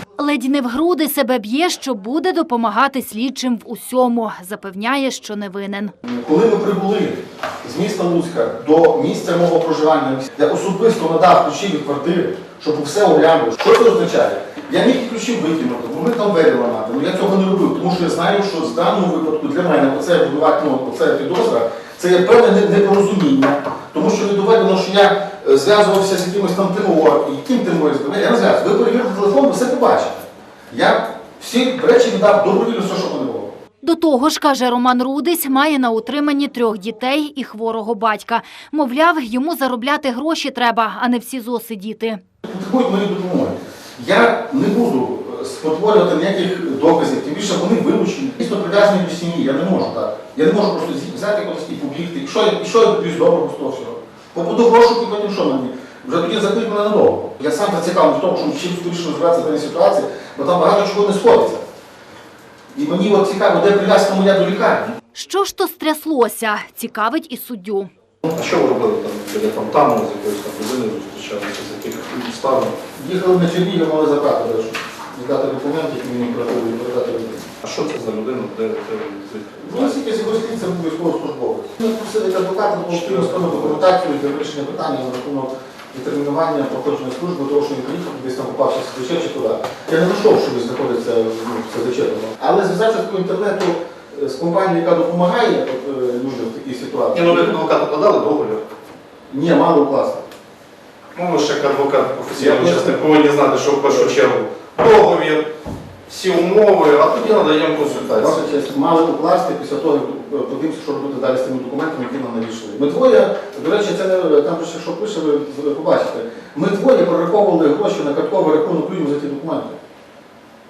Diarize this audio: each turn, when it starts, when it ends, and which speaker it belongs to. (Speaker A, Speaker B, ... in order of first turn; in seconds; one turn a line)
Speaker A: 0.2-5.9
Speaker B: 6.0-33.6
Speaker A: 33.8-42.2
Speaker B: 42.4-61.6
Speaker B: 62.7-64.9
Speaker A: 65.1-67.9
Speaker C: 68.3-72.8
Speaker B: 73.0-77.5
Speaker C: 77.6-80.0
Speaker B: 79.6-97.6
Speaker C: 82.9-83.8
Speaker C: 97.1-98.6
Speaker B: 99.3-100.2
Speaker C: 101.2-105.5
Speaker B: 102.3-103.0
Speaker C: 106.1-108.5
Speaker B: 107.8-119.8